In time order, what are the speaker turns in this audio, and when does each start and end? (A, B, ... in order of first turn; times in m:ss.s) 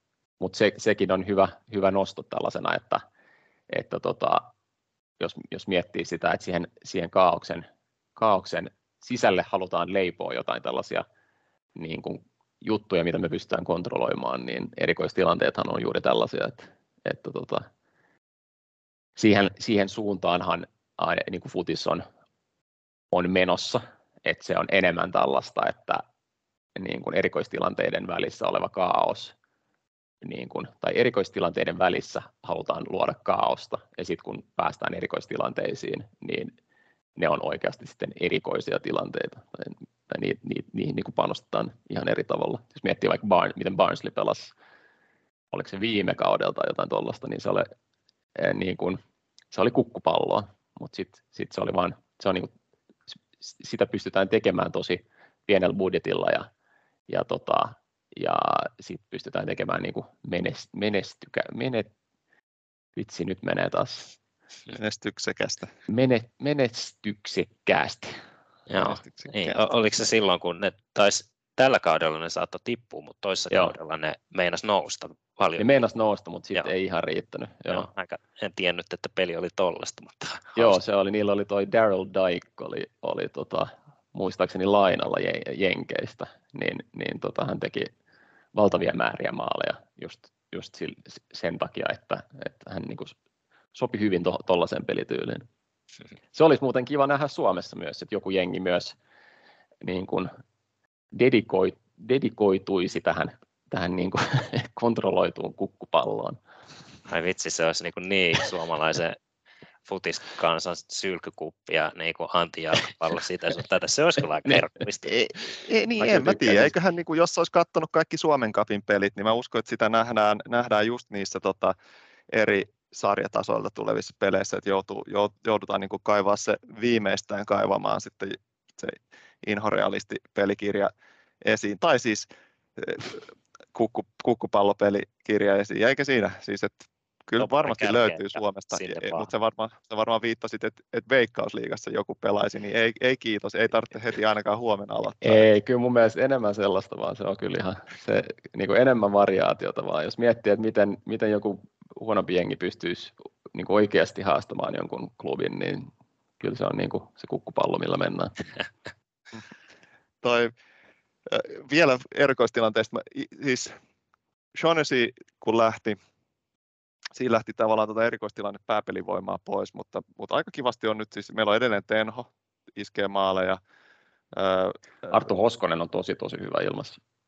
0:00.4-0:03.0 A
0:03.7-0:04.4 A
0:05.2-0:11.0 A
0:11.8-0:17.7 A
0:19.2-0:22.0 A
0:23.1-0:26.0 A
0:26.8-0:29.4 A
0:30.2-0:36.5 A
0:37.2-0:44.5 A
0:45.5-0:47.7 A
0:48.4-0:49.0 A
0:49.5-0:52.5 A
0:53.4-0:56.5 A
0:57.1-1:01.9 A
1:03.0-1:04.1 A
1:04.7-1:05.7 B
1:05.9-1:08.2 A
1:08.7-1:15.6 C
1:08.8-1:09.6 B
1:15.6-1:17.9 A
1:17.7-1:20.8 C
1:20.6-1:27.9 A
1:28.5-1:33.2 A
1:33.7-1:35.4 A
1:36.3-1:39.0 A
1:39.8-1:40.3 A
1:41.1-1:46.4 A
1:47.1-1:49.2 C
1:49.9-1:55.2 C
1:55.1-2:01.7 B
1:56.0-1:56.7 A
2:02.3-2:10.9 B
2:11.4-2:25.5 B
2:17.4-2:19.3 C
2:25.2-2:35.9 A
2:36.4-2:38.3 A
2:40.2-2:40.5 B
2:41.3-2:43.8 B
2:44.6-2:46.0 B
2:47.1-2:53.6 B
2:54.3-2:55.2 B
2:55.1-2:57.0 A